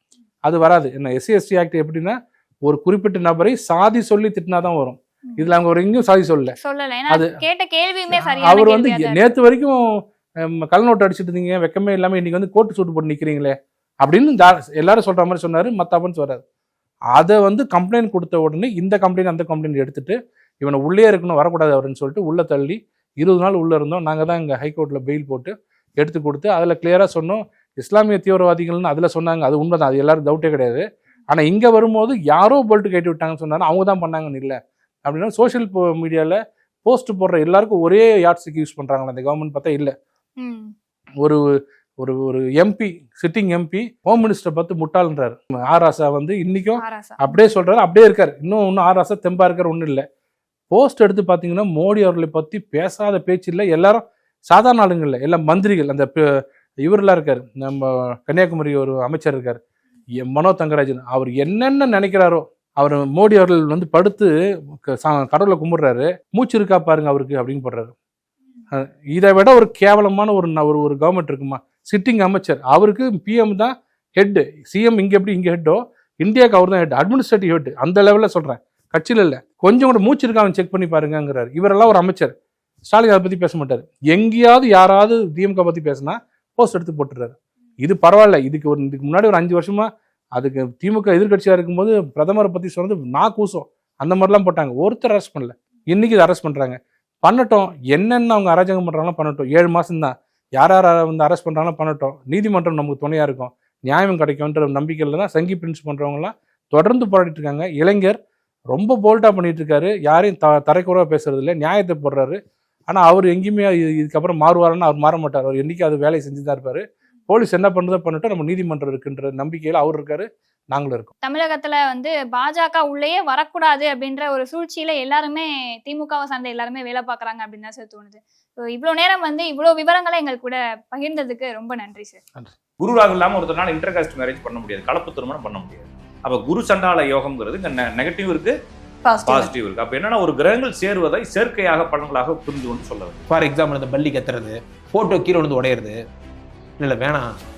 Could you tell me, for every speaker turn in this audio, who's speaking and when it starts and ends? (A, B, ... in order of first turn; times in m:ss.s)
0:00.4-0:06.6 A
0:06.6-0:09.3 B
0:07.1-0:07.4 A
0:08.1-0:09.8 A
0:10.5-0:16.4 A
0:17.2-0:39.9 A
0:40.4-0:40.7 B
0:42.0-0:50.0 A
0:46.8-0:47.3 B
0:50.7-0:59.6 A
1:00.2-1:04.3 A
1:04.9-1:07.9 A
1:08.7-1:22.3 A
1:22.9-1:48.2 A
1:48.7-1:52.4 A
1:52.9-2:01.1 A
2:01.2-2:12.2 B
2:12.8-2:18.6 C
2:19.2-2:23.2 C
2:23.3-2:26.0 D
2:26.8-2:27.4 D